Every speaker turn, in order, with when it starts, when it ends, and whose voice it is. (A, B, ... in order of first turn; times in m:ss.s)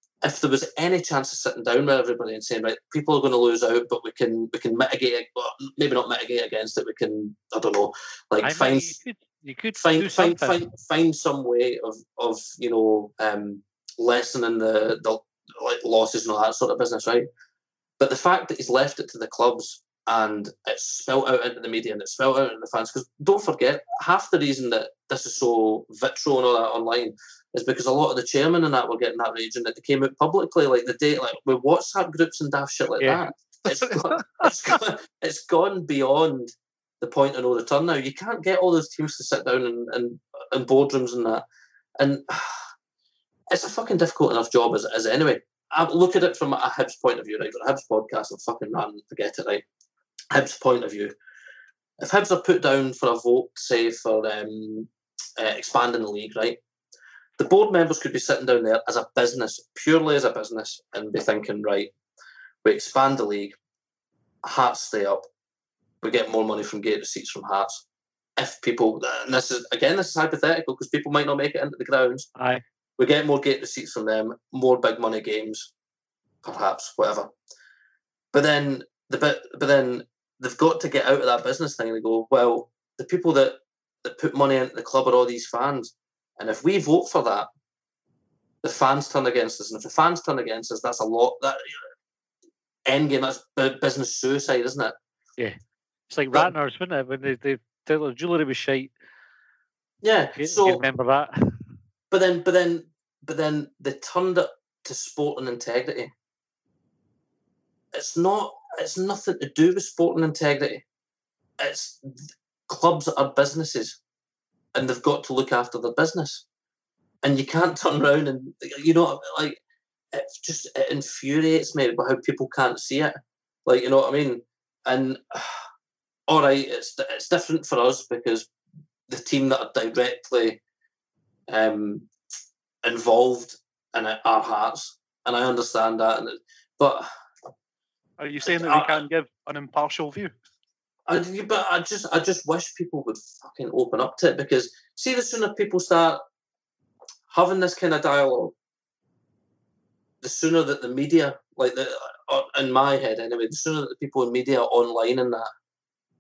0:00.2-0:09.0 A
0:08.4-0:10.7 B
0:09.8-0:17.3 A
0:18.0-0:41.4 A
0:42.0-0:42.7 A
0:43.5-0:49.6 A
0:50.3-0:51.1 A
0:52.0-0:56.6 A
0:57.4-1:01.9 A
1:02.6-1:03.6 A
1:04.4-1:05.3 A
1:06.0-1:07.8 A
1:08.4-1:12.3 A
1:12.4-1:12.6 B
1:13.0-1:15.7 A
1:16.4-1:17.3 A
1:18.3-1:27.5 A
1:28.6-1:31.8 A
1:32.9-1:35.0 A
1:36.1-1:38.9 B
1:40.0-1:40.8 A
1:40.4-1:41.6 B
1:42.1-1:46.1 A
1:47.9-1:50.8 A
1:51.6-1:54.0 A
1:54.7-1:56.4 A
1:57.2-1:59.6 A
2:00.1-2:05.6 A
2:06.3-2:08.5 A
2:09.1-2:10.6 A
2:11.5-2:12.1 A
2:12.8-2:17.1 A
2:18.2-2:20.3 C
2:18.5-2:19.0 A
2:21.1-2:26.2 A
2:27.3-2:28.5 A
2:30.2-2:35.5 A